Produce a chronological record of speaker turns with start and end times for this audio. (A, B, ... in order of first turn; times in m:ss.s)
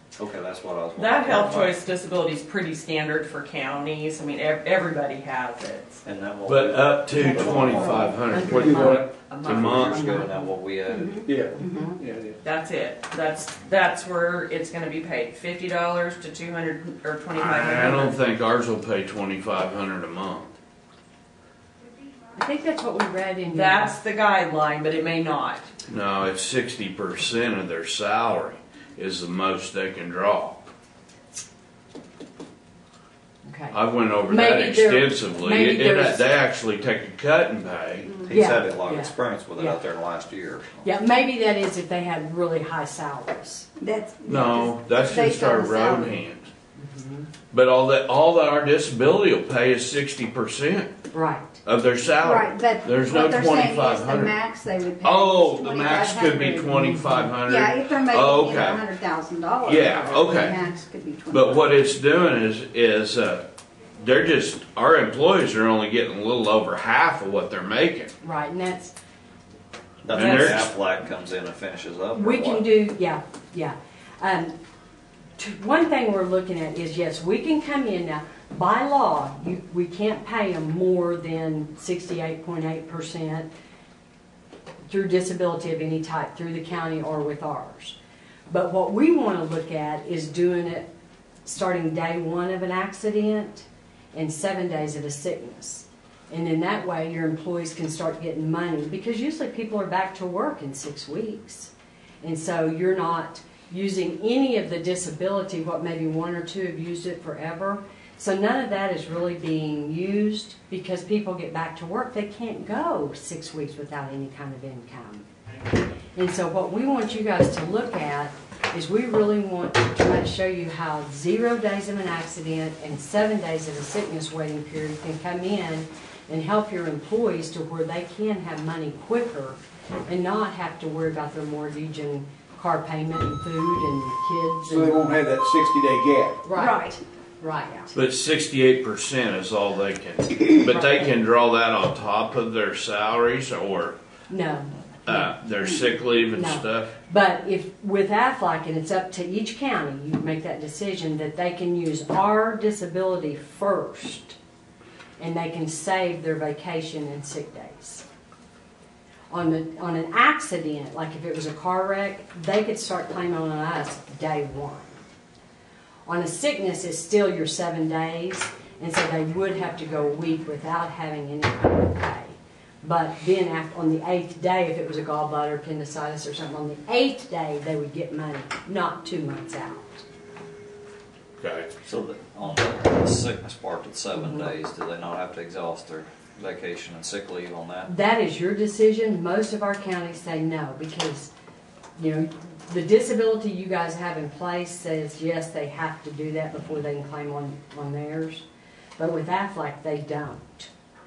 0:00.2-0:01.7 A
0:00.9-0:06.0 B
0:06.0-0:08.2 A
0:06.4-0:10.0 C
0:08.3-0:09.0 D
0:08.5-0:09.1 E
0:09.2-0:10.1 B
0:09.5-0:11.4 A
0:10.9-0:11.9 F
0:11.2-0:12.4 E
0:11.6-0:11.9 D
0:12.4-0:18.2 B
0:17.4-0:20.5 C
0:22.3-0:23.9 D
0:23.5-0:25.7 B
0:25.9-0:30.7 C
0:33.4-0:36.3 D
0:33.7-0:38.1 C
0:38.2-0:40.9 A
0:38.3-0:39.8 D
0:40.8-0:43.7 D
0:43.8-0:46.2 F
0:44.3-0:46.5 C
0:46.8-0:47.3 D
0:47.5-0:51.0 C
0:51.1-0:51.6 D
0:51.6-0:54.4 C
0:52.2-1:02.0 F
0:55.0-0:58.8 C
0:56.9-0:57.3 D
0:59.6-1:00.6 C
1:01.3-1:03.4 C
1:04.0-1:08.1 C
1:08.2-1:08.9 D
1:10.0-1:12.7 A
1:10.1-1:10.6 B
1:10.1-1:10.7 C
1:12.1-1:14.6 D
1:15.4-1:23.5 D
1:24.9-1:28.0 D
1:28.5-1:30.9 D
1:31.4-1:41.7 D
1:42.2-1:55.3 D
1:56.2-2:15.1 D
2:14.6-2:16.4 E
2:16.4-2:16.8 D
2:16.5-2:17.0 F
2:17.4-2:17.9 D
2:17.9-2:24.0 C
2:20.7-2:21.0 D
2:24.3-2:25.8 D
2:25.1-2:26.9 C
2:26.3-2:34.4 D
2:35.2-2:38.0 D
2:39.3-2:45.0 D
2:46.0-3:00.0 D
3:01.4-3:01.7 C
3:01.8-3:07.9 A
3:04.1-3:04.5 D
3:07.9-3:11.3 D
3:12.0-3:18.4 D
3:19.0-3:20.7 D